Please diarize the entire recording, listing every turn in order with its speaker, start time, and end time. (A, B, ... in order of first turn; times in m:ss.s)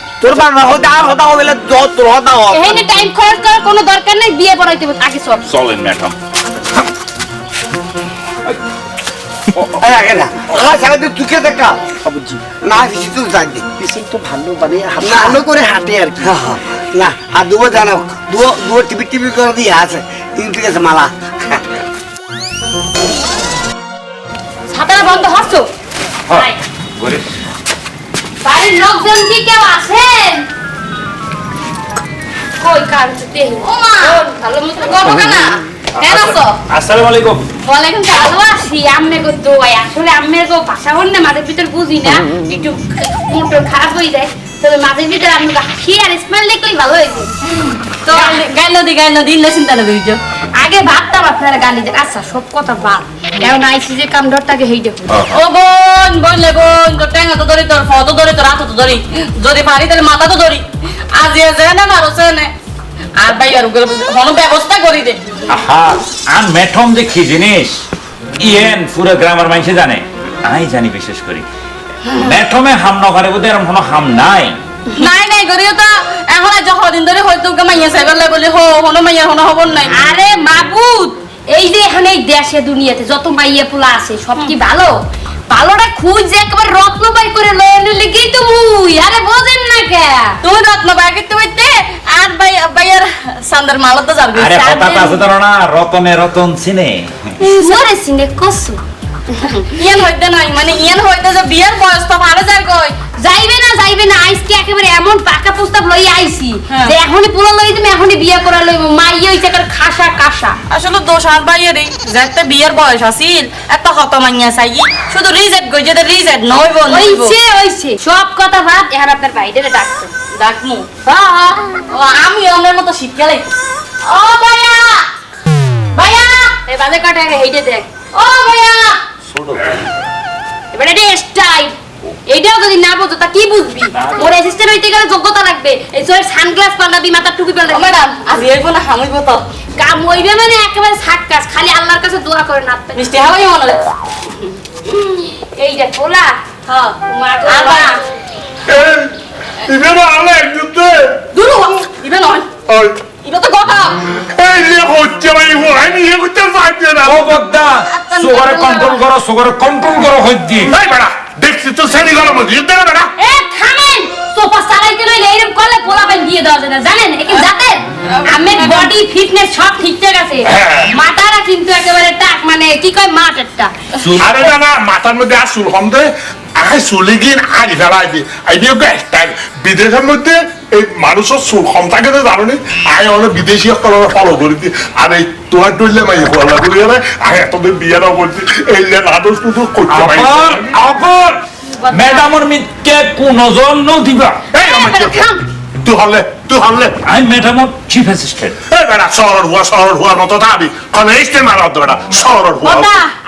0:00.2-0:02.8 A
0:02.5-0:05.4 B
0:05.4-0:06.2 C
0:09.8-0:11.9 A
0:12.0-0:12.4 D
0:12.6-0:13.7 A
0:13.8-0:16.3 D
0:15.0-0:15.4 A
0:16.2-0:21.6 A
0:24.7-0:25.7 B
0:26.3-0:27.4 C
0:26.3-0:26.6 B
0:28.4-0:30.5 B
0:32.6-0:36.6 B
0:33.8-0:34.2 E
0:36.0-0:37.4 C
0:37.6-0:47.4 B
0:48.0-0:48.4 B
0:48.1-0:50.2 E
0:50.6-0:55.2 B
0:55.1-0:55.4 C
0:55.3-1:02.5 E
1:03.2-1:05.2 E
1:05.5-1:07.8 C
1:08.4-1:11.4 C
1:12.1-1:14.6 C
1:15.0-1:19.9 E
1:19.9-1:25.0 B
1:25.5-1:30.4 B
1:30.4-1:35.2 E
1:34.4-1:37.1 C
1:37.4-1:39.6 B
1:37.6-1:37.9 E
1:39.8-1:43.0 E
1:43.2-1:50.6 B
1:46.7-1:47.0 E
1:50.7-1:57.4 E
1:56.9-2:00.1 B
2:00.3-2:03.5 E
2:01.2-2:01.5 B
2:04.0-2:05.1 B
2:06.0-2:06.6 E
2:06.5-2:09.0 B
2:08.2-2:08.9 E
2:09.3-2:09.8 C
2:10.7-2:11.8 B
2:12.3-2:17.9 B
2:14.0-2:14.3 C
2:17.7-2:19.4 E
2:19.8-2:23.1 B
2:22.9-2:23.8 E
2:24.9-2:26.4 B
2:26.7-2:28.0 E
2:27.1-2:28.0 B
2:28.7-2:29.1 F
2:29.6-2:31.2 F
2:31.3-2:32.5 E
2:32.7-2:33.0 F
2:33.2-2:34.0 E
2:34.2-2:37.3 F
2:37.0-2:40.7 C
2:38.1-2:38.9 E
2:40.7-2:43.1 F
2:43.2-2:53.7 B
2:48.1-2:48.9 E
2:50.5-2:50.9 F
2:54.0-2:54.4 C
2:54.2-2:56.1 F
2:56.6-3:10.7 F
3:09.9-3:11.4 C
3:11.8-3:12.3 B
3:11.9-3:14.5 C
3:14.5-3:15.3 F
3:14.5-3:15.4 B
3:15.8-3:17.0 F
3:17.0-3:18.6 C
3:18.7-3:22.9 F
3:22.7-3:23.0 B